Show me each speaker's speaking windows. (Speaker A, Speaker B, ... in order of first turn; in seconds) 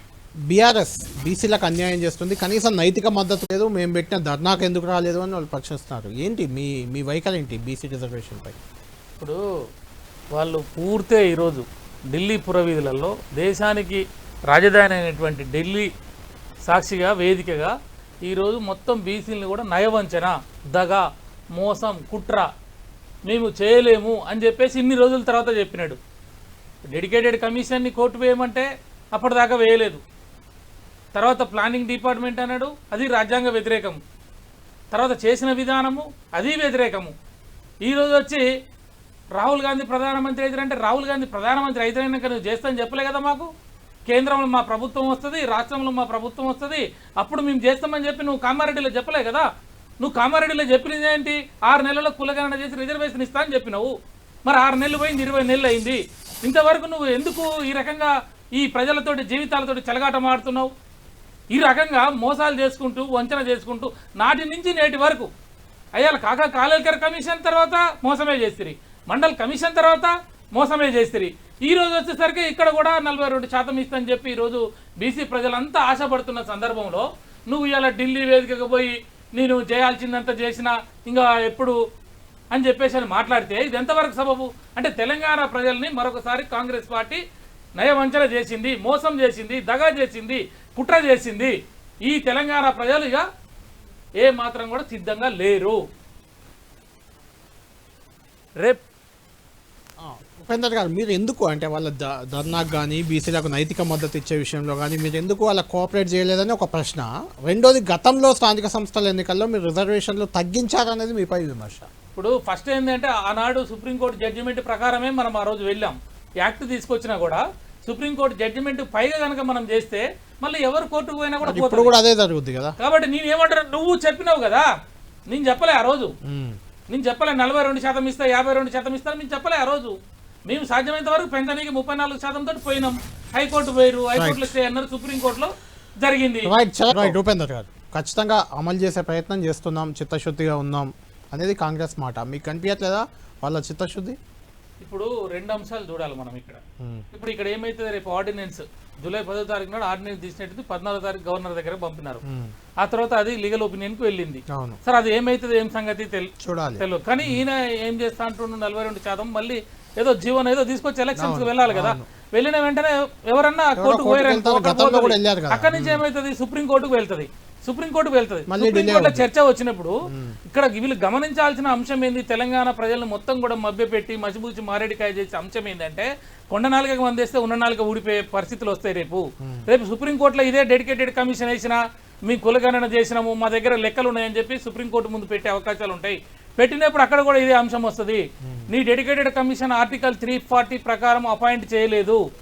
Speaker A: 0.5-8.6, 100.0-111.9, 121.4-122.8, 126.2-126.6, 134.2-134.5, 136.4-144.2, 152.2-152.5, 154.5-154.8, 156.4-157.4, 161.2-162.1, 163.8-166.0, 168.5-169.2, 170.1-170.4
Speaker B: 10.3-15.9, 16.7-17.7, 18.2-21.1, 21.6-22.5, 23.3-26.0, 26.9-30.0, 31.1-34.0, 34.9-37.1, 37.9-38.5, 39.3-43.5, 44.1-49.5, 50.0-53.9, 54.5-60.7, 61.5-65.3, 66.0-81.8, 82.5-87.2, 87.8-91.5, 92.1-93.2, 94.2-95.8, 112.1-122.0, 122.8-124.7, 125.3-126.1, 126.9-129.9, 130.5-137.2, 144.8-146.6, 147.1-152.2, 152.8-169.9, 170.5-192.2